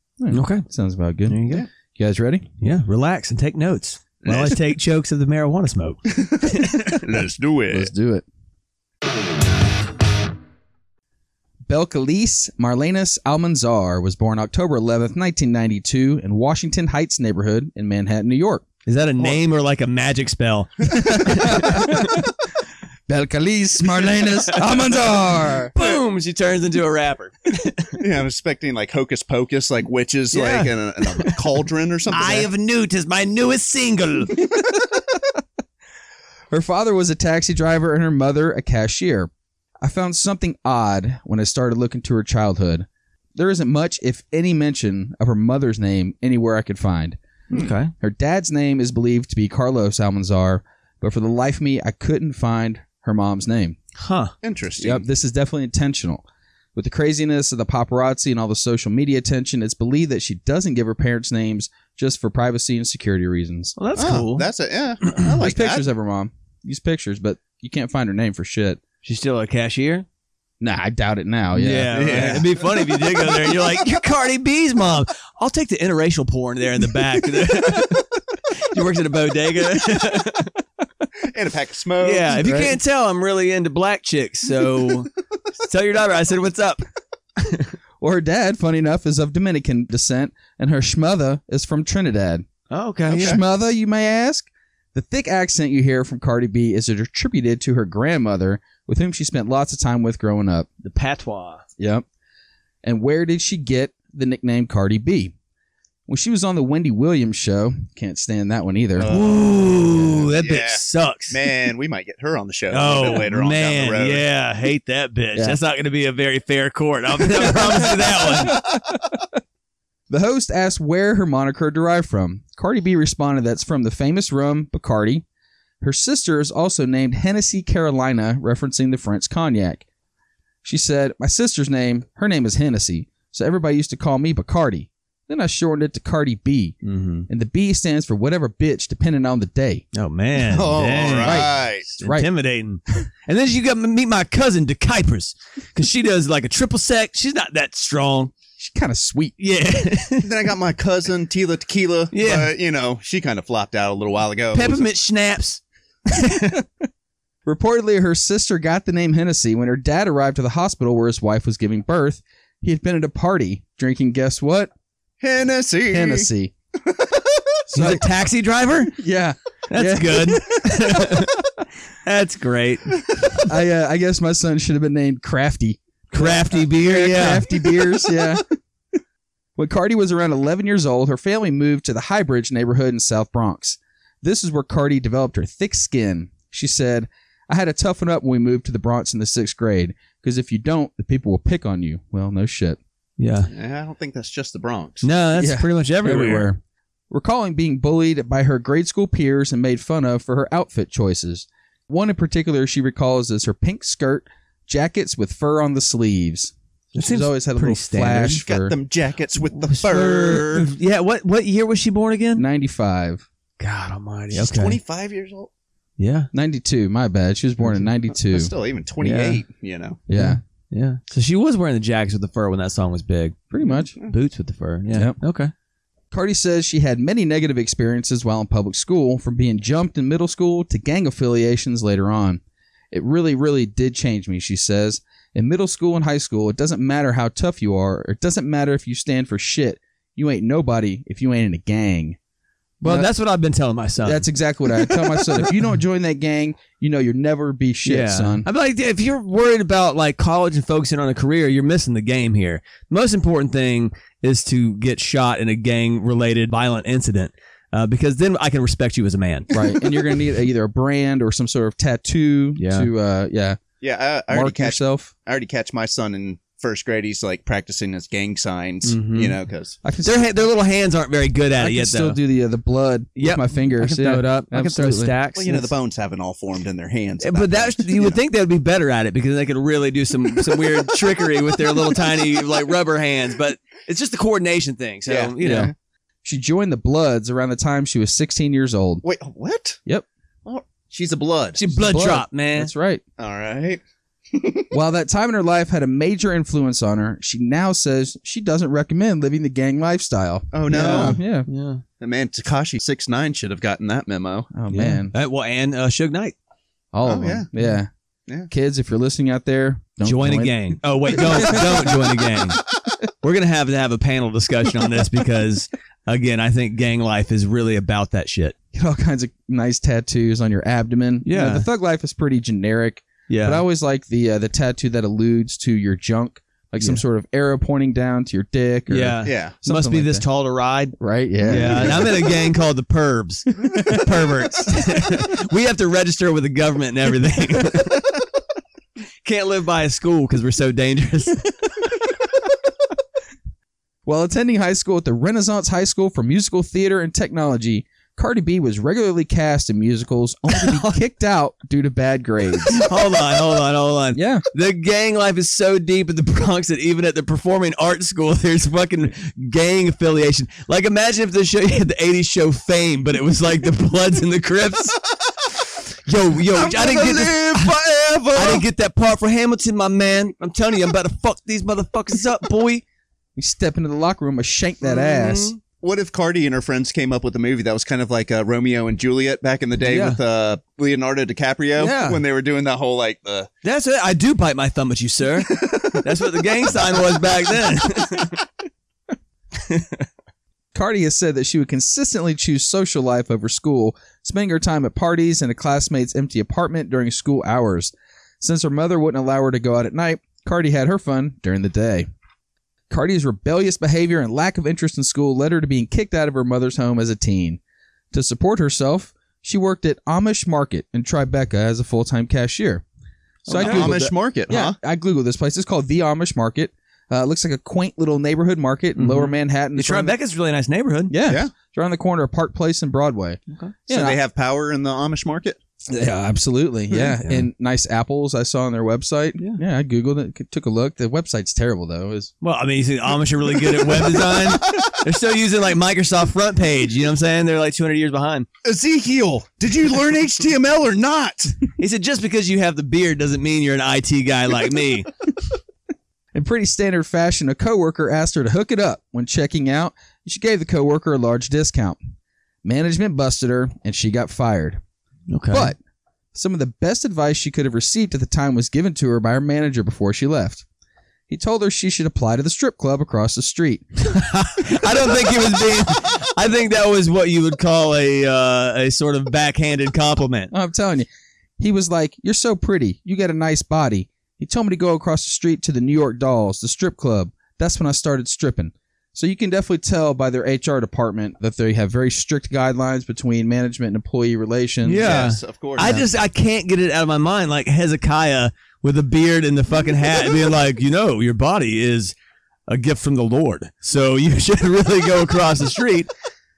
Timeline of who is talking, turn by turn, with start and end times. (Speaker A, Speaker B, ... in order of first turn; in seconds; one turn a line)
Speaker A: 0.2-1.4
Speaker B: 0.3-0.7
Speaker B: 1.3-1.7
Speaker A: 1.9-2.5
Speaker B: 2.6-7.1
Speaker C: 4.2-4.6
Speaker C: 6.2-7.9
Speaker A: 7.7-8.2
Speaker A: 11.7-18.6
Speaker B: 18.9-22.2
Speaker A: 20.9-22.3
Speaker C: 20.9-21.6
Speaker A: 23.1-25.7
Speaker B: 24.5-25.0
Speaker B: 25.7-28.0
Speaker C: 28.0-32.5
Speaker B: 30.3-31.4
Speaker B: 32.1-34.4
Speaker A: 36.5-39.3
Speaker A: 39.8-47.2
Speaker B: 47.5-47.9
Speaker A: 48.0-53.8
Speaker B: 53.9-54.3
Speaker C: 54.4-55.0
Speaker A: 54.8-56.2
Speaker A: 56.8-63.8
Speaker B: 63.8-64.5
Speaker C: 63.9-65.8
Speaker B: 65.1-65.3
Speaker A: 65.4-68.8
Speaker B: 69.0-70.0
Speaker A: 70.6-72.4
Speaker B: 71.5-80.5
Speaker C: 71.9-72.7
Speaker C: 81.2-82.4
Speaker B: 82.0-86.8
Speaker A: 82.3-82.8
Speaker B: 87.4-87.7
Speaker A: 88.0-92.5
Speaker B: 92.7-93.4
Speaker C: 93.1-93.4
Speaker A: 93.1-100.7
Speaker B: 100.8-101.6
Speaker A: 101.8-102.0
Speaker A: 102.8-105.3
Speaker A: 106.1-109.1
Speaker C: 109.0-109.4
Speaker B: 109.0-111.4
Speaker C: 110.4-114.2
Speaker B: 112.7-118.6
Speaker A: 118.3-119.1
Speaker A: 120.1-125.2
Speaker A: 125.8-129.8
Speaker A: 130.6-136.8
Speaker B: 136.8-137.3
Speaker A: 137.3-139.8
Speaker B: 139.9-148.3
Speaker C: 140.3-141.8
Speaker A: 141.2-142.3
Speaker A: 148.6-149.3
Speaker B: 149.4-150.3
Speaker C: 150.2-154.9
Speaker B: 152.1-152.5
Speaker B: 154.5-156.6
Speaker A: 157.4-164.7
Speaker C: 165.2-166.3
Speaker A: 165.9-166.5
Speaker C: 166.8-167.6
Speaker A: 167.7-168.0
Speaker B: 167.7-168.9
Speaker A: 168.9-171.2
Speaker B: 169.7-171.4
Speaker B: 172.0-173.4
Speaker A: 173.4-178.4
Speaker B: 176.1-178.1
Speaker A: 179.6-192.8
Speaker B: 193.2-193.5
Speaker C: 193.5-195.1
Speaker B: 195.0-196.5
Speaker A: 195.4-208.7
Speaker B: 206.9-208.4
Speaker C: 208.4-210.7
Speaker B: 209.5-212.4
Speaker A: 212.3-213.2
Speaker B: 213.6-214.8
Speaker C: 214.3-215.5
Speaker B: 216.0-216.3
Speaker A: 216.3-218.5
Speaker B: 217.6-217.9
Speaker C: 218.1-220.0
Speaker B: 219.0-219.4
Speaker A: 220.1-220.4
Speaker B: 220.2-223.5
Speaker A: 223.5-223.9
Speaker C: 223.6-224.1
Speaker B: 224.0-225.5
Speaker A: 226.1-232.4
Speaker A: 232.9-242.2
Speaker B: 242.8-245.5
Speaker A: 244.0-248.5
Speaker B: 247.8-259.5
Speaker A: 259.5-263.6
Speaker B: 262.6-262.9
Speaker C: 263.8-269.8
Speaker A: 264.3-265.1
Speaker B: 268.9-269.4
Speaker A: 269.8-270.2
Speaker B: 270.0-272.2
Speaker A: 271.6-275.1
Speaker B: 273.2-275.7
Speaker C: 275.3-278.2
Speaker B: 277.2-285.7
Speaker C: 285.1-285.7
Speaker A: 285.4-285.7
Speaker A: 286.2-289.0
Speaker C: 289.0-289.8
Speaker C: 290.4-291.6
Speaker B: 291.6-292.7
Speaker A: 291.7-293.0
Speaker C: 293.2-294.7
Speaker A: 294.7-301.5
Speaker C: 300.5-301.2
Speaker B: 300.7-301.8
Speaker C: 302.0-304.5
Speaker A: 304.5-305.1
Speaker B: 304.7-306.3
Speaker A: 306.9-307.9
Speaker C: 307.0-307.5
Speaker A: 308.5-312.0
Speaker B: 310.0-312.6
Speaker B: 313.2-318.5
Speaker A: 318.7-330.2
Speaker B: 321.2-321.6
Speaker B: 323.3-323.6
Speaker B: 328.9-338.1
Speaker C: 329.2-329.5
Speaker A: 331.0-332.2
Speaker C: 331.5-331.9
Speaker A: 333.7-334.1
Speaker B: 339.2-341.7
Speaker A: 344.1-352.8
Speaker B: 350.6-350.9
Speaker B: 352.7-365.0
Speaker A: 354.1-354.4
Speaker B: 366.0-372.8
Speaker C: 366.5-368.6
Speaker A: 373.4-375.5
Speaker B: 374.8-375.6
Speaker C: 375.8-383.5
Speaker B: 379.8-380.2
Speaker B: 381.8-382.2
Speaker B: 383.6-388.4
Speaker C: 385.6-386.0
Speaker A: 390.7-402.1
Speaker A: 402.9-407.6
Speaker A: 408.1-412.8
Speaker C: 413.5-414.8
Speaker A: 413.5-420.1
Speaker B: 413.5-413.9
Speaker B: 419.0-421.1
Speaker A: 421.1-424.2
Speaker C: 421.3-421.5
Speaker C: 423.9-425.6
Speaker A: 425.9-432.3
Speaker B: 427.2-427.4
Speaker B: 432.4-438.5
Speaker C: 433.9-434.9
Speaker C: 438.6-441.6
Speaker B: 441.8-445.1
Speaker A: 446.3-452.0
Speaker A: 452.6-454.8
Speaker B: 455.3-455.7
Speaker A: 455.5-455.8
Speaker A: 456.3-460.6
Speaker A: 461.3-463.9
Speaker B: 464.0-470.5
Speaker A: 470.5-471.1
Speaker A: 471.6-485.2
Speaker B: 484.9-492.1
Speaker C: 485.0-486.0
Speaker A: 485.8-486.0
Speaker B: 492.7-496.1